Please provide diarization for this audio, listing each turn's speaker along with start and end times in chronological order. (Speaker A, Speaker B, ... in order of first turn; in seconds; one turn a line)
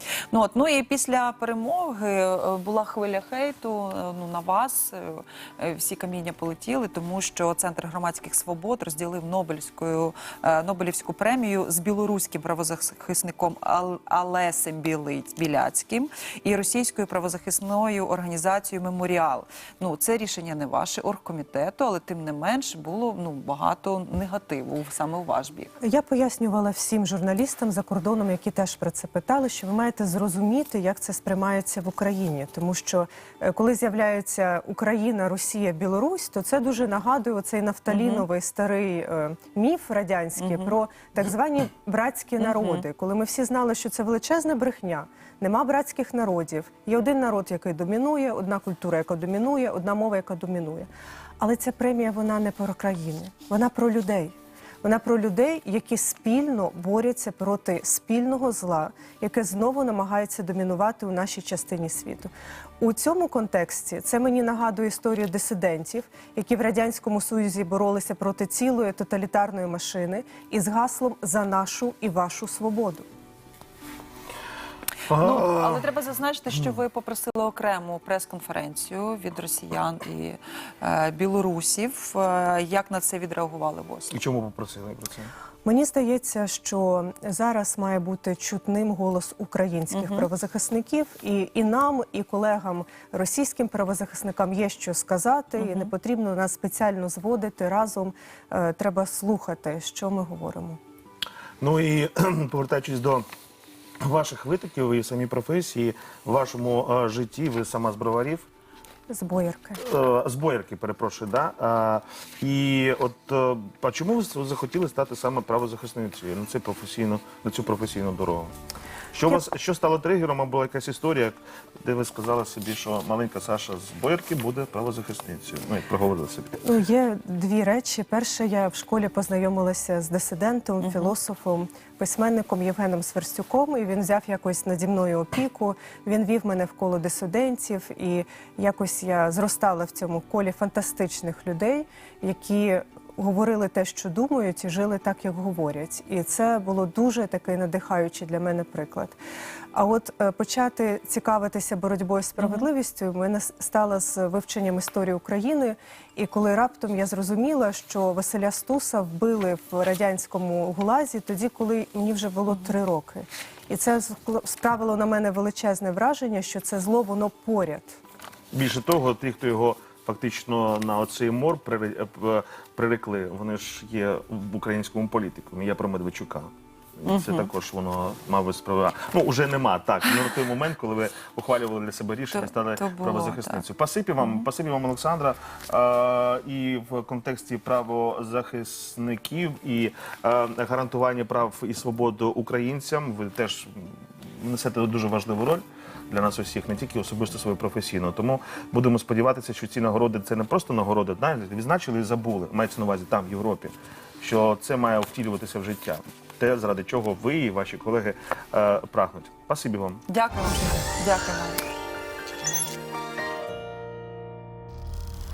Speaker A: 0.3-25.8
Speaker B: 25.8-73.1
Speaker A: 37.9-38.2
Speaker A: 40.4-40.7
Speaker A: 42.4-42.8
Speaker C: 75.1-75.8
Speaker A: 75.1-84.2
Speaker C: 84.1-85.3
Speaker B: 85.6-100.8
Speaker A: 89.9-90.2
Speaker A: 95.6-95.9
Speaker C: 101.6-103.2
Speaker C: 104.0-108.4
Speaker B: 109.1-109.8
Speaker C: 109.8-118.5
Speaker C: 119.1-126.6
Speaker B: 126.6-149.2
Speaker A: 130.8-131.1
Speaker B: 149.7-168.0
Speaker C: 168.5-210.0
Speaker A: 177.1-177.5
Speaker A: 182.3-183.6
Speaker A: 210.1-211.6